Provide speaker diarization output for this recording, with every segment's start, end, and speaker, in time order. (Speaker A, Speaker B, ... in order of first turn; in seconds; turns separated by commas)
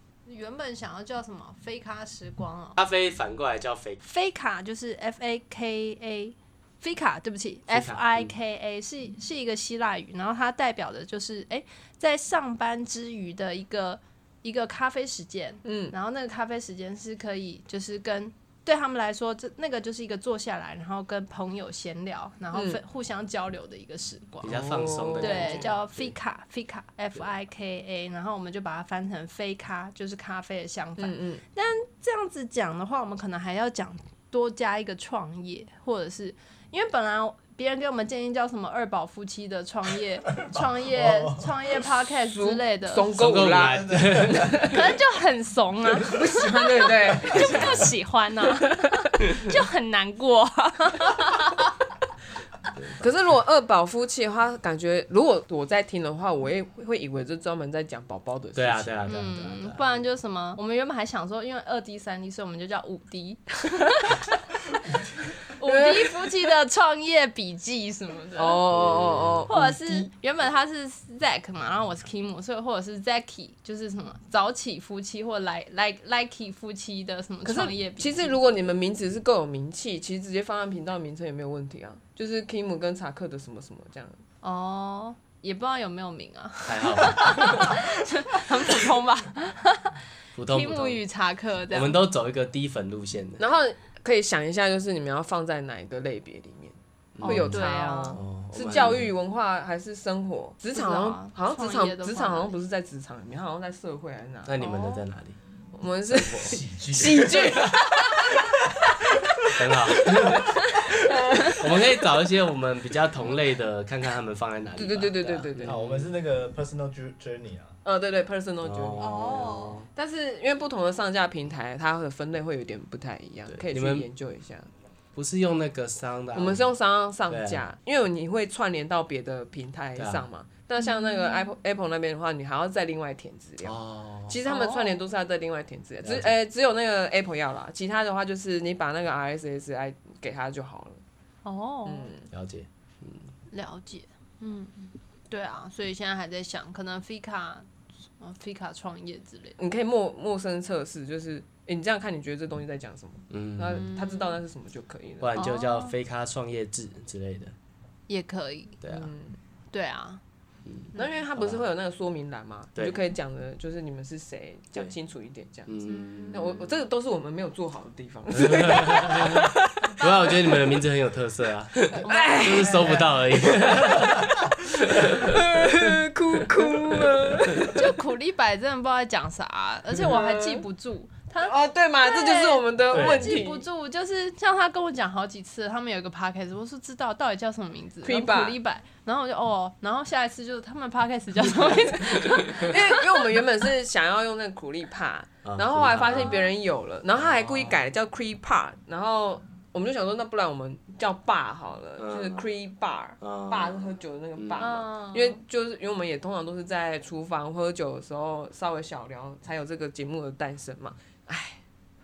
Speaker A: 0.2-2.8, Speaker B: 2.8-4.0, Speaker A: 4.0-24.6, Speaker B: 7.7-8.3, Speaker C: 15.6-15.9, Speaker C: 22.5-22.8, Speaker B: 24.4-26.1, Speaker C: 24.4-25.7, Speaker A: 25.2-43.1, Speaker C: 31.0-31.4, Speaker D: 40.4-41.5, Speaker C: 42.3-44.8, Speaker B: 43.1-44.8, Speaker D: 43.9-44.6, Speaker A: 44.6-51.7, Speaker C: 46.1-47.8, Speaker B: 47.3-47.9, Speaker B: 52.8-53.0, Speaker C: 53.0-59.2, Speaker B: 58.5-59.8, Speaker A: 59.0-68.6, Speaker C: 65.7-66.1, Speaker C: 68.3-70.1, Speaker B: 68.7-69.5, Speaker A: 69.5-78.3, Speaker C: 77.4-84.2, Speaker A: 84.4-92.0, Speaker B: 86.7-87.7, Speaker B: 90.3-91.0, Speaker B: 91.7-93.4, Speaker C: 93.4-104.5, Speaker B: 97.1-99.1, Speaker A: 97.2-98.2, Speaker A: 100.7-102.5, Speaker B: 104.5-105.4, Speaker A: 104.6-105.0, Speaker C: 105.7-108.6, Speaker B: 106.1-106.6, Speaker D: 106.5-107.7, Speaker B: 109.5-110.5, Speaker D: 110.1-110.6, Speaker A: 110.4-110.8, Speaker C: 111.0-111.7, Speaker B: 111.4-116.1, Speaker C: 114.8-115.7, Speaker D: 115.6-117.7, Speaker C: 117.8-124.7, Speaker B: 118.6-119.9, Speaker A: 119.0-119.8, Speaker B: 123.5-124.1, Speaker B: 125.1-126.6, Speaker C: 126.3-133.8, Speaker B: 127.3-127.6, Speaker B: 130.0-130.2, Speaker A: 130.8-131.5, Speaker B: 133.6-134.4, Speaker C: 134.3-141.0, Speaker A: 134.4-135.0, Speaker B: 136.0-136.3, Speaker A: 141.4-142.1, Speaker C: 141.8-142.3, Speaker B: 142.3-143.3, Speaker A: 143.5-147.7, Speaker A: 148.2-149.6, Speaker C: 149.6-155.3, Speaker B: 153.3-153.9, Speaker A: 153.9-154.3, Speaker B: 155.2-157.5, Speaker A: 155.3-155.9, Speaker A: 158.1-158.8, Speaker B: 158.8-159.1, Speaker C: 158.9-159.3, Speaker A: 159.7-160.2, Speaker B: 160.7-161.6, Speaker C: 160.9-165.7, Speaker B: 165.7-166.6, Speaker A: 165.8-166.6, Speaker C: 166.3-170.3, Speaker B: 168.3-174.3, Speaker A: 169.8-170.7, Speaker C: 171.9-174.3, Speaker A: 172.0-173.0, Speaker D: 173.8-174.2, Speaker B: 174.9-175.3, Speaker C: 175.0-177.8, Speaker A: 177.7-192.9, Speaker C: 180.1-180.6, Speaker C: 181.4-183.6, Speaker D: 182.9-183.3, Speaker C: 188.0-188.6, Speaker C: 192.2-211.6, Speaker B: 195.4-196.4, Speaker B: 197.2-197.8, Speaker B: 202.0-202.4, Speaker B: 203.2-204.7, Speaker A: 204.6-205.4